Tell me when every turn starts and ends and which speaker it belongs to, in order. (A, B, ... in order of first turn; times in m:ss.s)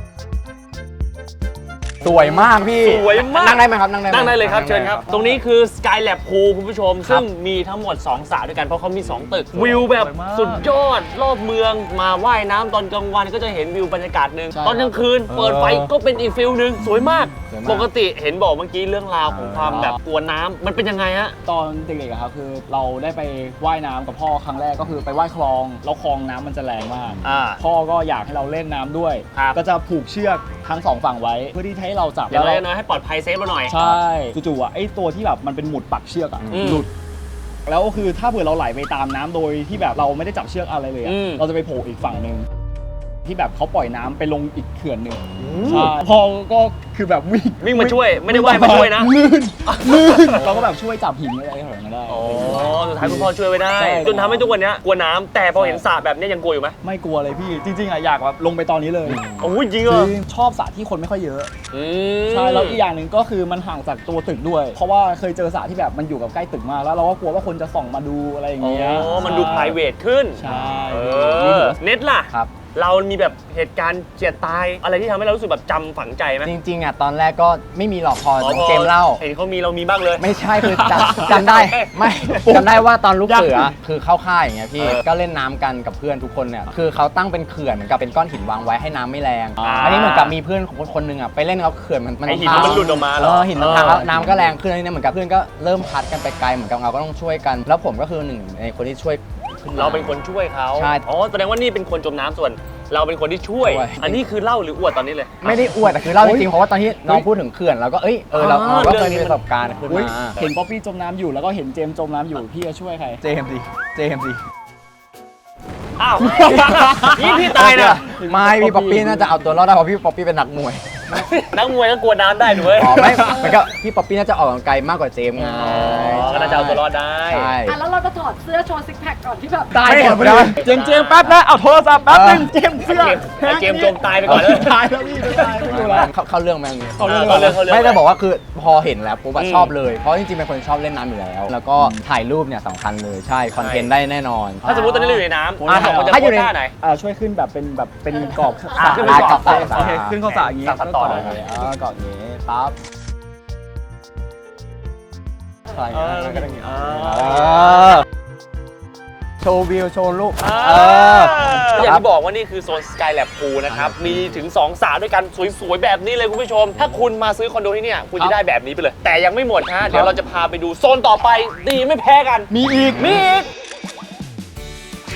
0:02.0-0:05.0 A
0:02.8-0:21.4 B
0:04.7-0:05.4 C
0:09.5-0:10.6 C
0:14.5-0:15.9 C
0:17.4-0:17.9 C
0:19.3-0:19.9 C
0:21.4-0:32.6 C
0:27.2-0:27.6 B
0:32.3-0:33.9 B
0:33.7-0:36.9 C
0:36.4-0:36.8 A
0:36.5-0:36.8 B
0:37.6-0:42.5 C
0:41.0-0:41.4 B
0:43.2-0:54.6 C
0:45.4-0:45.9 B
0:47.6-0:49.2 B
0:49.7-0:50.7 B
0:52.1-0:56.8 B
0:55.5-0:55.8 C
0:56.8-0:59.2 C
0:59.1-1:00.1 B
0:59.8-1:01.5 C
1:01.7-1:02.8 B
1:02.3-1:09.8 C
1:08.6-1:16.5 B
1:09.0-1:09.5 A
1:10.4-1:11.4 C
1:10.4-1:11.8 A
1:16.4-1:19.2 A
1:18.4-1:20.2 B
1:20.2-1:40.1 A
1:20.6-1:21.3 C
1:20.8-1:21.9 B
1:22.2-1:23.7 C
1:29.6-1:30.3 B
1:32.2-1:34.2 B
1:32.5-1:33.0 C
1:33.6-1:34.4 C
1:39.7-1:45.4 B
1:40.7-1:41.0 A
1:43.6-1:44.2 A
1:45.4-1:50.4 A
1:45.4-1:46.5 C
1:48.3-1:50.5 B
1:49.8-1:54.4 C
1:56.0-1:58.0 B
1:56.3-1:59.5 C
1:57.3-2:01.0 A
2:01.1-2:03.3 B
2:02.7-2:07.8 A
2:02.8-2:03.6 C
2:05.4-2:07.6 B
2:05.8-2:06.2 C
2:07.7-2:09.7 D
2:09.7-2:16.1 C
2:09.8-2:10.6 A
2:10.5-2:11.3 B
2:12.1-2:12.5 A
2:12.8-2:14.8 B
2:15.5-2:24.9 A
2:17.0-2:17.6 C
2:17.0-2:18.0 B
2:19.4-2:19.7 B
2:23.5-2:23.9 B
2:24.6-2:26.7 B
2:24.6-2:26.2 C
2:25.6-2:26.5 A
2:26.8-2:32.7 C
2:28.7-2:31.4 B
2:28.9-2:30.1 A
2:35.7-2:38.0 A
2:35.9-2:38.0 C
2:39.4-2:42.0 A
2:40.4-2:53.5 B
2:43.7-2:44.4 C
2:52.5-2:53.2 C